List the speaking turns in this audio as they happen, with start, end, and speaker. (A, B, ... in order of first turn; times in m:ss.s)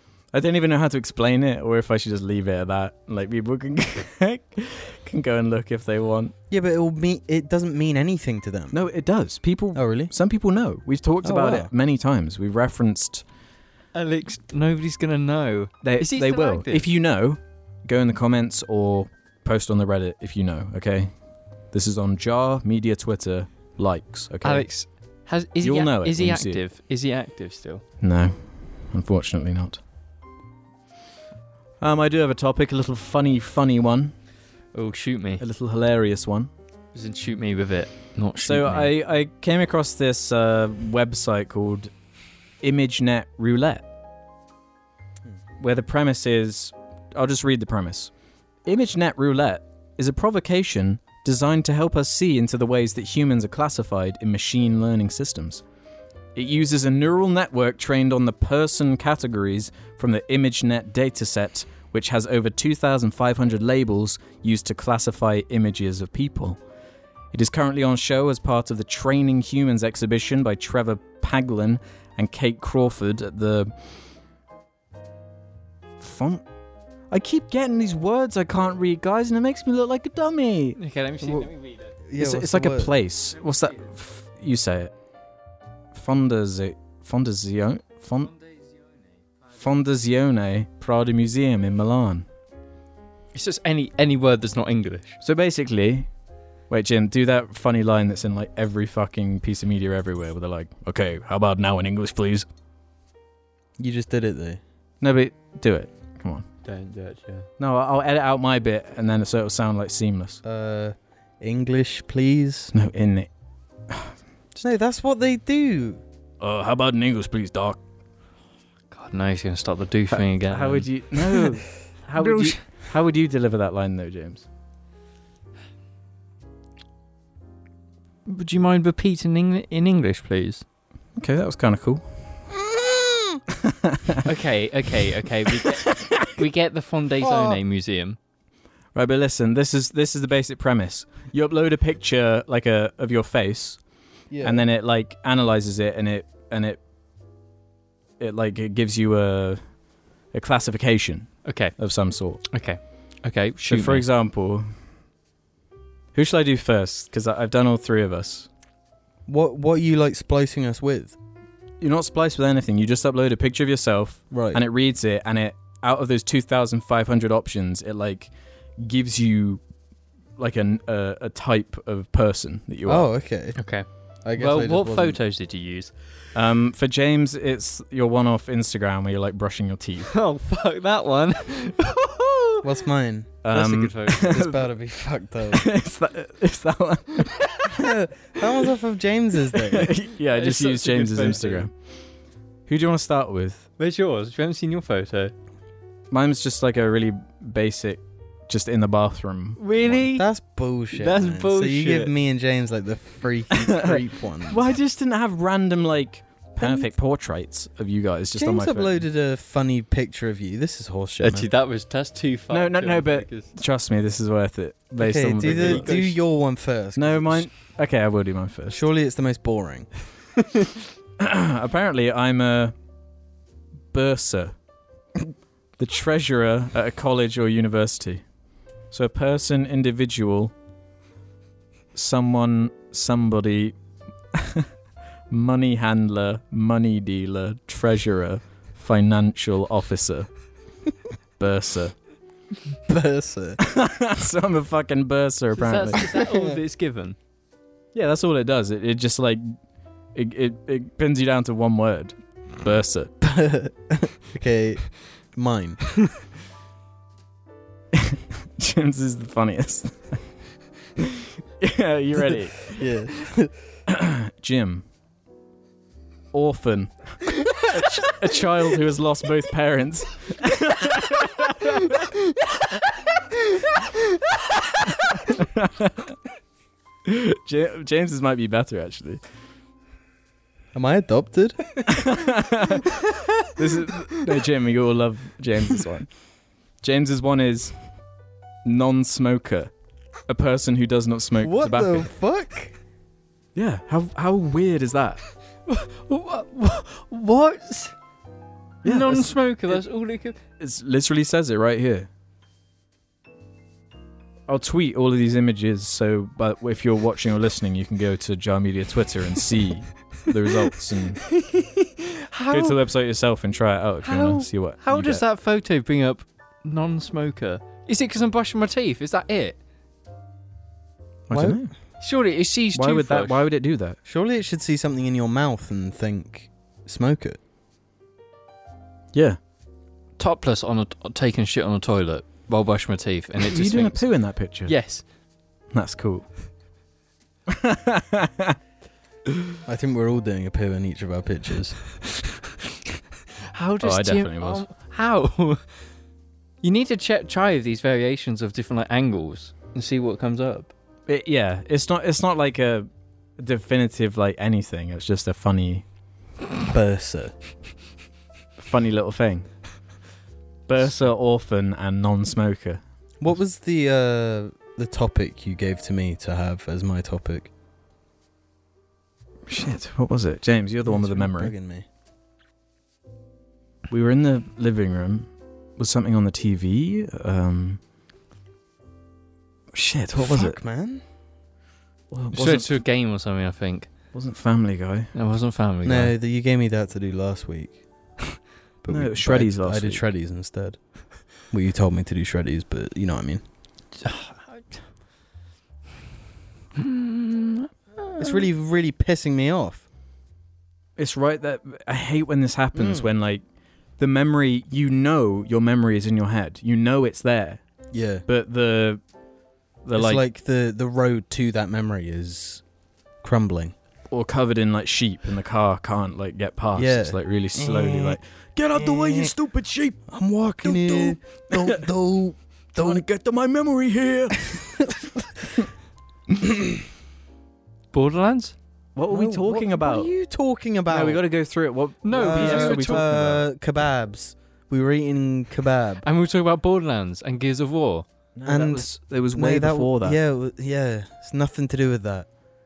0:00.3-0:06.3 A
0:06.5-0:08.8 B
0:08.7-0:13.2 A
0:09.7-0:10.1 B
0:11.2-0:11.7 B
0:13.9-0:16.8 C
0:15.8-0:21.1 A
0:21.7-0:24.7 A
0:24.4-0:27.8 C
0:25.6-0:26.6 A
0:28.0-0:29.8 A
0:31.8-0:34.1 A
0:34.7-0:35.4 C
0:35.4-0:36.5 A
0:36.9-0:38.9 C
0:38.4-0:41.9 A
0:42.6-0:43.8 A
0:45.6-0:48.1 A
0:48.6-0:55.6 A
0:56.3-1:06.6 A
1:07.3-1:13.7 A
1:16.0-1:16.4 A
1:17.1-1:20.8 A
1:20.8-1:21.9 C
1:22.1-1:22.9 B
1:22.2-1:24.9 A
1:25.9-1:28.3 A
1:29.5-1:32.2 A
1:33.3-1:35.2 C
1:35.2-1:36.1 A
1:36.7-1:42.5 A
1:43.8-1:44.6 B
1:45.0-1:46.4 A
1:46.6-1:47.5 C
1:47.6-1:50.4 A
1:50.4-1:52.7 B
1:52.7-1:53.3 A
1:54.6-1:56.0 B
1:56.4-1:57.8 A
1:58.9-2:00.9 C
2:00.1-2:04.4 A
2:02.2-2:02.6 C
2:08.2-2:10.6 C
2:11.2-2:12.0 A
2:12.6-2:13.4 B
2:13.6-2:14.2 A
2:14.2-2:18.2 C
2:15.7-2:16.3 A
2:17.2-2:17.6 B
2:18.9-2:23.8 A
2:24.3-2:24.6 B
2:24.4-2:26.8 A
2:28.2-2:29.6 A
2:30.3-2:32.5 A
2:31.4-2:31.7 C
2:32.5-2:34.0 C
2:33.6-2:34.7 A
2:36.1-2:38.5 A
2:39.3-2:41.2 B
2:41.8-2:49.6 A
2:44.3-2:44.6 B
2:50.4-2:53.1 A
2:52.8-2:53.6 B
2:53.6-2:55.9 C
2:54.2-2:55.2 B
2:56.3-3:00.1 A
3:00.1-3:02.7 C
3:02.6-3:03.4 B
3:03.4-3:04.7 A
3:03.5-3:04.4 C
3:04.2-3:05.6 B
3:05.5-3:07.7 A
3:07.6-3:09.9 B
3:09.6-3:11.7 A
3:10.3-3:11.7 C
3:12.7-3:13.7 A
3:13.8-3:15.3 C
3:16.1-3:20.0 A
3:19.6-3:20.2 C
3:20.1-3:24.6 B
3:20.9-3:22.1 C
3:23.5-3:29.0 A
3:26.6-3:26.9 B
3:28.4-3:31.5 B
3:31.2-3:33.5 C
3:32.5-3:36.0 A
3:35.0-3:37.5 B
3:35.4-3:36.2 C
3:37.0-3:38.8 A
3:38.7-3:39.9 B
3:41.2-3:42.7 A
3:43.9-3:44.5 A
3:45.8-3:48.2 A
3:48.9-3:50.5 A
3:51.9-3:53.7 A
3:54.3-3:54.7 A
3:55.3-4:00.3 A
4:01.4-4:01.9 A
4:02.9-4:03.6 B
4:03.6-4:06.1 A
4:05.5-4:07.2 C
4:06.1-4:06.6 B
4:07.9-4:09.5 A
4:10.1-4:13.1 A
4:13.2-4:15.8 B
4:17.9-4:20.2 A
4:21.0-4:22.9 A
4:22.7-4:23.5 B
4:23.9-4:24.8 A
4:26.3-4:32.1 A
4:35.0-4:36.1 A
4:37.0-4:39.2 A
4:40.7-4:41.6 B
4:41.8-4:42.9 A
4:43.4-4:46.1 A
4:46.8-4:47.7 A
4:48.6-4:49.7 A
4:50.3-4:52.1 A
4:51.4-4:52.7 B
4:53.5-4:55.2 A
4:55.7-4:57.9 C
4:58.8-4:59.8 A
4:58.8-5:00.4 C
5:00.6-5:02.1 A
5:04.5-5:11.3 A
5:11.3-5:12.8 C
5:12.5-5:15.2 A
5:14.0-5:19.6 C
5:21.3-5:21.7 A
5:21.3-5:21.6 B
5:22.0-5:23.4 C
5:22.7-5:24.0 A
5:24.0-5:27.4 B
5:30.2-5:34.0 C
5:33.4-5:34.7 A
5:34.6-5:35.0 C
5:35.7-5:36.2 A
5:37.5-5:38.6 A
5:39.6-5:41.8 B
5:43.5-5:45.6 C
5:43.8-5:44.6 A
5:46.6-5:50.7 C
5:51.1-5:55.8 A
5:56.7-5:57.3 B
5:58.6-5:59.5 A
6:00.7-6:02.8 A
6:03.2-6:07.5 B
6:09.5-6:11.5 A
6:10.8-6:11.8 B
6:13.9-6:17.8 A
6:19.7-6:20.6 A
6:20.2-6:21.0 B
6:22.1-6:22.8 A
6:22.3-6:23.9 C
6:24.1-6:25.1 A
6:25.1-6:26.1 C
6:25.8-6:27.8 B
6:28.8-6:30.8 B
6:28.9-6:30.0 A
6:31.4-6:33.4 B
6:34.0-6:34.8 C
6:36.8-6:38.4 C
6:38.2-6:39.8 B
6:41.0-6:43.4 A
6:42.7-6:43.1 B
6:44.0-6:47.6 A
6:47.9-6:48.2 B
6:48.2-6:49.0 A
6:49.8-6:50.2 A
6:49.9-6:52.6 B
6:53.2-6:53.7 B
6:54.1-7:01.9 A
6:56.8-6:58.2 B
6:58.8-6:59.3 B
7:00.1-7:03.0 B
7:02.7-7:05.1 A
7:07.9-7:08.5 C
7:09.0-7:10.1 A
7:09.1-7:11.2 B
7:10.9-7:13.4 A
7:12.0-7:13.1 C
7:12.1-7:16.0 B
7:16.0-7:18.1 C
7:18.3-7:20.2 A
7:18.4-7:22.3 B